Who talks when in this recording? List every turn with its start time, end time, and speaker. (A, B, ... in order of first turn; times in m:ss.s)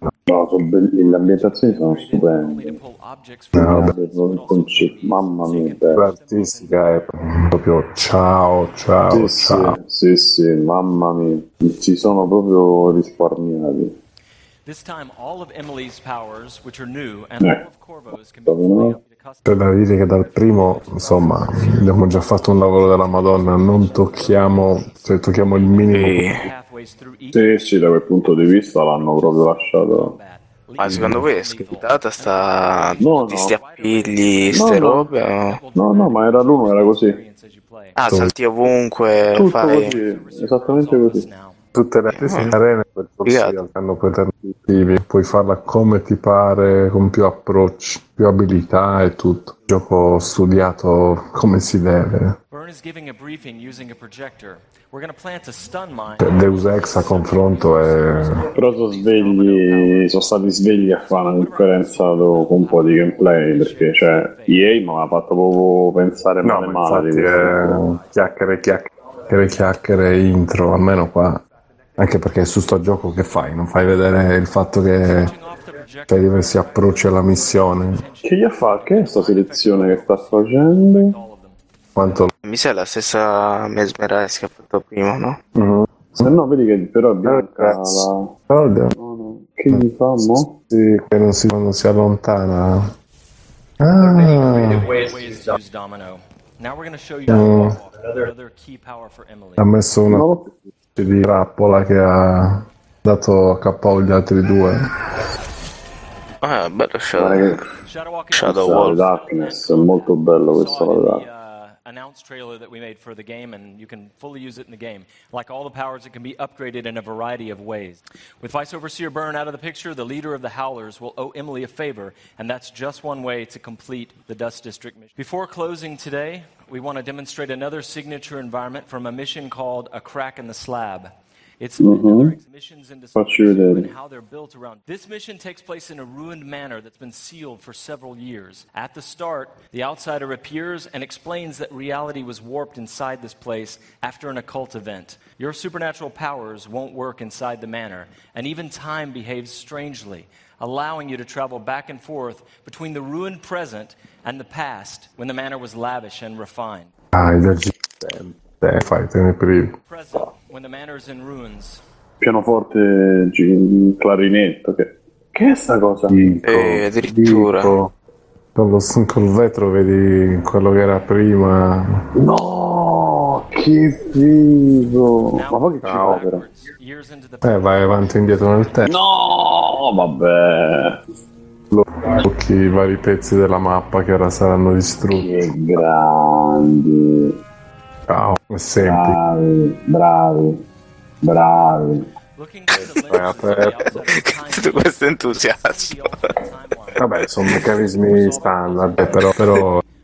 0:00.3-0:02.7 A
0:01.0-0:07.0 B
0:03.6-0:03.9 C
0:03.6-0:06.0 A
0:06.0-0:09.8 C
0:09.1-0:13.9 A
0:14.6-0:19.6 B
0:18.5-0:19.0 A
0:19.4-0:26.3 C
0:20.2-0:21.7 B
0:23.6-0:25.0 B
0:25.5-0:27.6 B
0:25.9-0:26.4 D
0:27.3-0:30.1 A
0:29.0-0:38.0 B
0:30.8-0:35.6 D
0:30.9-0:31.2 C
0:33.0-0:33.6 A
0:34.5-0:35.1 A
0:35.8-0:37.2 A
0:38.0-0:39.9 D
0:39.4-0:41.2 A
0:39.4-0:41.6 B
0:41.7-0:52.4 C
0:42.1-0:42.5 D
0:43.2-0:43.5 D
0:52.5-1:00.1 B
0:56.2-0:58.5 C
0:58.6-1:07.8 A
1:01.0-1:04.8 B
1:06.4-1:11.4 C
1:12.0-1:15.3 C
1:15.0-1:21.6 B
1:16.1-1:18.0 C
1:18.2-1:21.1 A
1:22.0-1:22.3 C
1:22.4-1:25.4 D
1:25.5-1:26.2 C
1:26.2-1:28.3 A
1:27.2-1:28.9 C
1:29.0-1:30.6 A
1:29.7-1:32.9 C
1:33.8-1:35.0 C
1:34.2-1:39.6 B
1:37.3-1:37.7 C
1:39.6-1:40.3 C
1:40.1-1:40.5 A
1:41.0-1:44.8 C
1:46.4-1:47.5 D
1:47.2-1:47.7 A
1:47.8-2:36.9 B
1:48.3-1:49.0 D
1:48.4-1:51.2 A
2:11.8-2:12.3 A
2:13.2-2:13.8 A
2:37.1-2:39.7 C
2:39.8-2:41.8 B
2:42.2-2:46.3 A
2:46.1-2:47.9 C
2:46.4-2:47.7 D
2:48.5-2:52.1 C
2:52.2-2:56.4 A
2:55.3-2:58.7 B
2:55.8-2:56.2 C
2:57.4-2:58.9 C
2:58.9-3:01.0 A
3:01.7-3:05.3 C
3:05.1-3:07.4 A
3:08.1-3:09.2 C
3:08.8-3:10.6 A
3:11.2-3:12.0 A
3:12.4-3:19.5 B
3:12.7-3:13.8 C
3:14.4-3:16.0 D
3:17.0-3:19.8 C